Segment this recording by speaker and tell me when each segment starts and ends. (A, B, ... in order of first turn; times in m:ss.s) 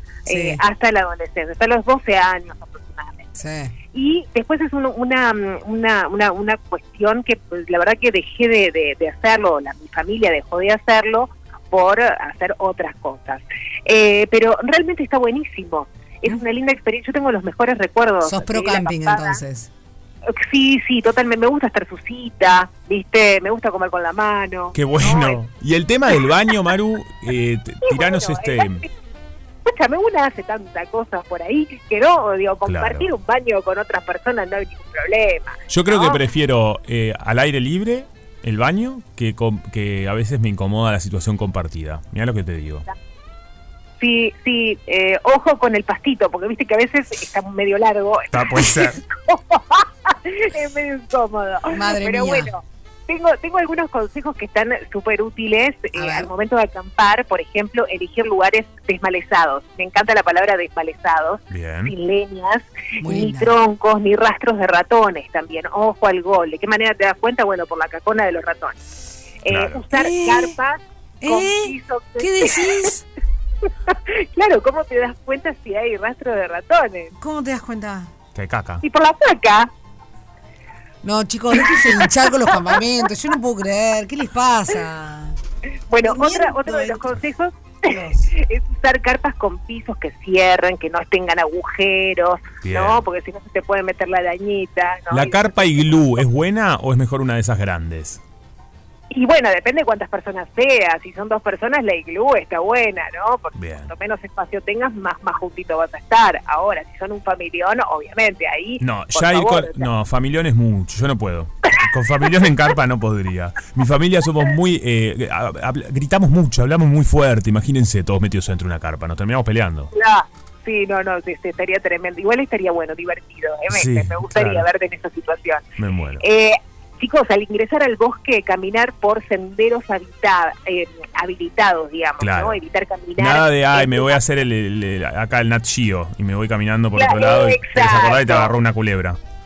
0:00.3-0:00.6 A
0:00.3-0:03.3 B
0:03.4-0:03.7 A
0:03.9-0:19.4 B
0:18.2-0:19.7 A
0:20.3-0:25.4 B
0:24.7-0:28.9 C
0:27.8-0:28.8 B
0:29.6-0:36.2 B
0:32.7-0:33.1 C
0:35.7-0:42.9 C
0:44.0-1:08.8 B
0:48.3-0:49.0 C
0:51.7-0:52.5 A
0:55.9-0:56.3 A
1:01.5-1:02.0 C
1:03.0-1:03.5 A
1:09.4-1:12.9 B
1:09.5-1:09.8 C
1:09.9-1:10.6 A
1:11.2-1:13.0 A
1:13.9-1:17.1 B
1:17.2-1:18.1 A
1:18.4-1:18.8 C
1:18.8-1:19.7 B
1:21.0-1:25.4 A
1:21.6-1:22.8 B
1:25.9-1:36.0 B
1:26.0-1:27.1 A
1:27.8-1:28.3 A
1:32.6-1:33.0 C
1:35.1-1:38.2 C
1:39.1-1:49.9 B
1:43.6-1:43.9 C
1:48.8-1:59.9 C
1:59.9-2:05.6 B
2:03.7-2:04.7 C
2:05.8-2:06.2 C
2:06.2-2:14.2 B
2:12.2-2:12.6 C
2:13.2-2:19.2 C
2:17.0-2:18.5 B